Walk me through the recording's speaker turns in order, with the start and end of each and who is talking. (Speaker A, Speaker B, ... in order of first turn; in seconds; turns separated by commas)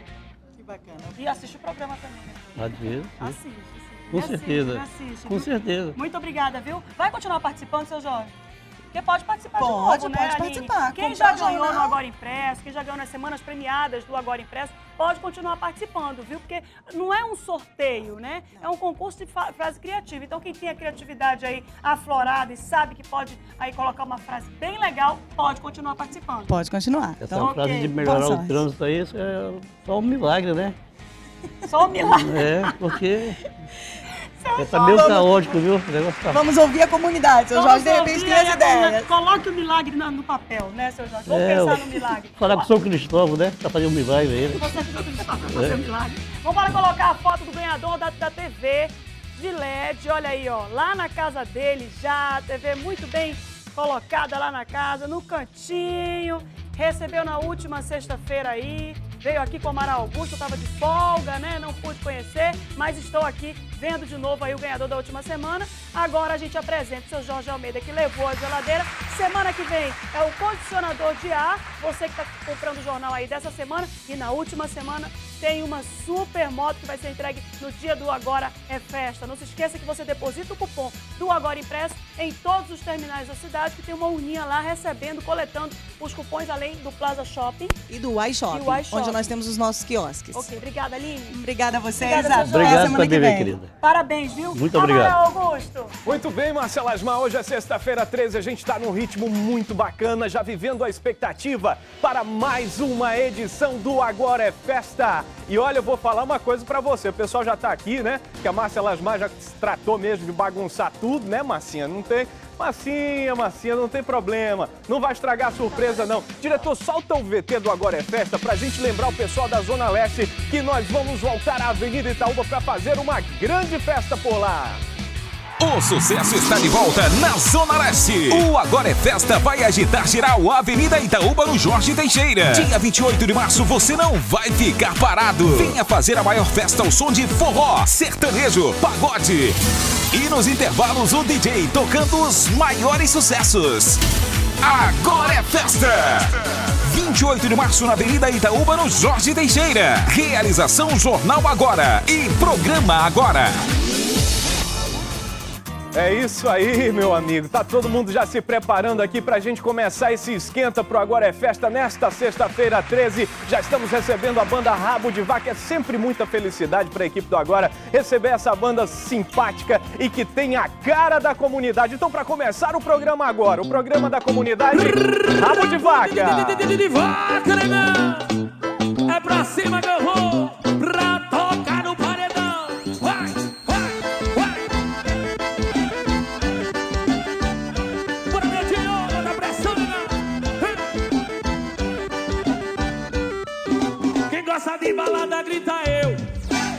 Speaker A: 1.1-8.3, Speaker B: 2.6-3.4, Speaker B: 4.1-6.0, Speaker A: 8.9-26.5, Speaker C: 9.6-12.0, Speaker C: 26.5-28.6, Speaker B: 27.2-30.8, Speaker A: 27.3-28.1, Speaker A: 31.6-33.0, Speaker B: 32.0-33.4, Speaker A: 34.4-35.6, Speaker B: 34.6-36.4, Speaker C: 34.9-35.4, Speaker C: 36.3-39.1, Speaker A: 37.5-42.7, Speaker B: 41.3-44.8, Speaker A: 44.5-87.7, Speaker B: 45.5-45.8, Speaker C: 87.9-90.5, Speaker A: 88.5-89.3, Speaker A: 90.3-91.4, Speaker C: 91.3-93.5, Speaker A: 92.0-93.1, Speaker B: 92.4-93.7, Speaker A: 93.8-95.9, Speaker B: 94.5-95.2, Speaker D: 96.0-124.8, Speaker A: 115.6-116.7, Speaker E: 125.6-139.6, Speaker E: 140.1-144.0, Speaker E: 144.6-153.6, Speaker D: 155.9-176.7, Speaker F: 174.7-178.4, Speaker F: 179.1-184.7, Speaker F: 188.3-190.7, Speaker F: 194.3-196.2